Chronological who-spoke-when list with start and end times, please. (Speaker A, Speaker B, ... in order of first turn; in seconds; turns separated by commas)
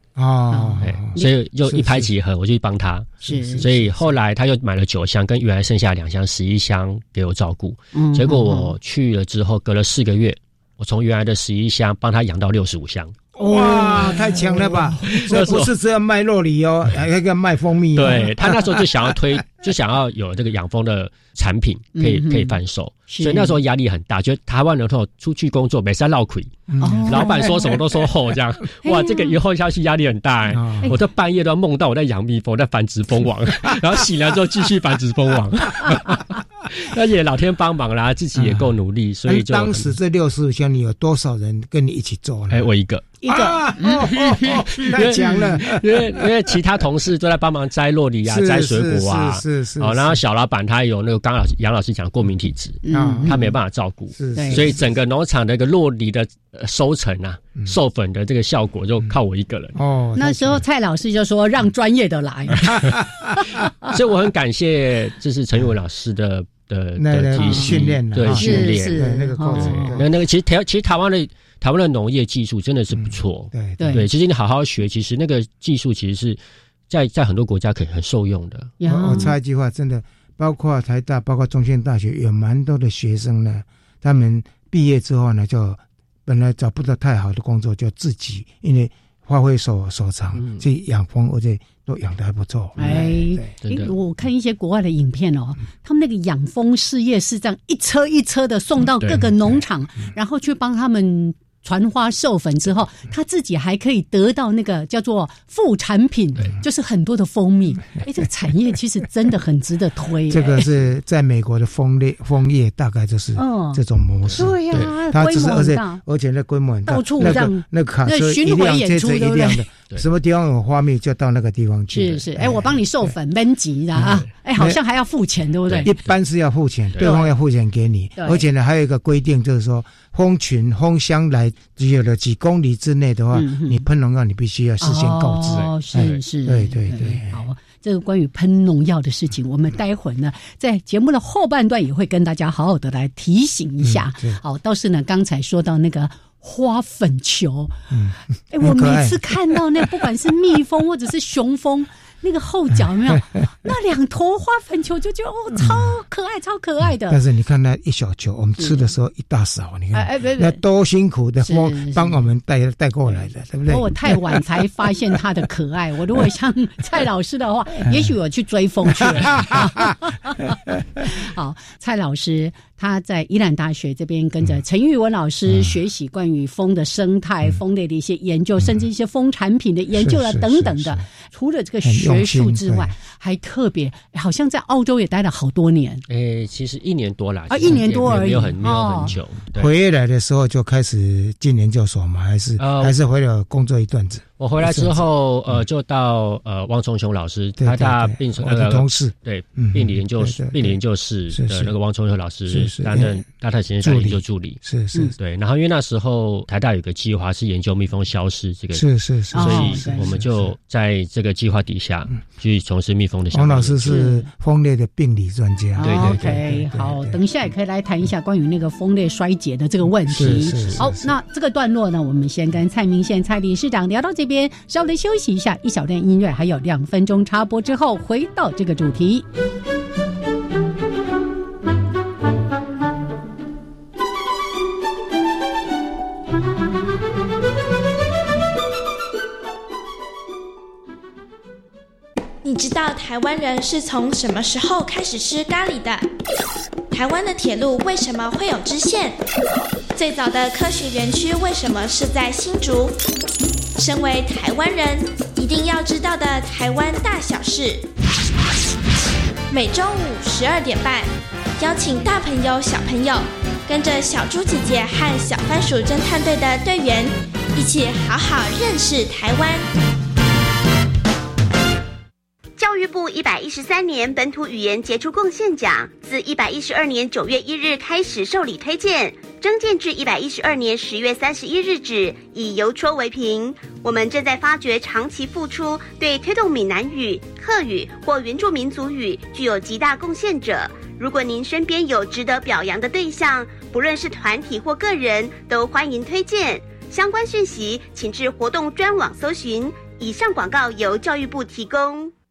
Speaker A: 0.1-2.1, Speaker B: 0.5-0.8, Speaker C: 0.8-13.2, Speaker B: 3.2-3.6, Speaker A: 3.2-4.1, Speaker B: 7.9-8.7, Speaker B: 13.4-15.5, Speaker A: 13.4-19.1, Speaker C: 15.1-15.7, Speaker C: 17.9-39.9, Speaker B: 21.9-22.6, Speaker B: 23.1-23.6, Speaker A: 26.7-27.8, Speaker B: 26.8-27.7, Speaker B: 28.8-29.4, Speaker A: 30.5-30.9, Speaker A: 38.3-38.7, Speaker A: 39.2-42.7, Speaker C: 42.5-43.1, Speaker B: 43.2-45.5, Speaker A: 43.3-46.6, Speaker C: 44.3-59.7, Speaker A: 48.2-50.2, Speaker B: 52.8-53.5, Speaker A: 52.9-53.5, Speaker A: 54.1-55.0, Speaker B: 54.3-54.7, Speaker A: 59.7-60.6, Speaker B: 60.1-63.9, Speaker C: 63.9-78.7, Speaker A: 67.0-70.1, Speaker B: 67.3-70.0, Speaker A: 73.1-74.0, Speaker B: 73.8-74.0, Speaker B: 78.8-79.4, Speaker A: 78.8-93.5, Speaker C: 90.3-90.6, Speaker B: 92.8-110.7, Speaker C: 93.6-93.9, Speaker C: 99.0-99.2, Speaker A: 110.3-123.1, Speaker B: 113.3-116.0, Speaker C: 114.2-114.9, Speaker B: 116.8-119.7, Speaker B: 121.9-125.9, Speaker A: 124.0-124.8, Speaker C: 125.7-126.1, Speaker A: 125.8-137.4, Speaker B: 127.0-127.3, Speaker B: 128.2-128.4, Speaker B: 133.3-133.8, Speaker B: 134.8-147.7, Speaker C: 135.5-136.2, Speaker A: 143.8-144.4, Speaker A: 147.9-149.8, Speaker B: 148.5-157.2, Speaker A: 155.6-155.8, Speaker A: 157.1-164.4, Speaker B: 158.6-158.8, Speaker B: 159.9-160.6, Speaker B: 161.4-162.2, Speaker B: 163.7-186.0, Speaker A: 179.9-181.1, Speaker A: 181.8-182.9, Speaker C: 186.1-189.7, Speaker B: 187.5-189.1, Speaker A: 189.5-195.0, Speaker C: 192.6-192.9, Speaker C: 194.4-204.6, Speaker A: 197.6-201.7, Speaker A: 202.5-203.2, Speaker A: 203.8-205.1, Speaker C: 205.2-214.1, Speaker A: 208.7-210.5, Speaker B: 209.3-210.1, Speaker A: 213.3-217.2, Speaker B: 213.8-214.2, Speaker B: 215.8-229.2, Speaker C: 215.8-216.4, Speaker A: 220.1-221.1, Speaker D: 242.4-246.1, Speaker D: 246.9-249.2, Speaker D: 249.9-252.9, Speaker D: 253.8-257.8, Speaker D: 259.5-269.6, Speaker E: 272.6-302.1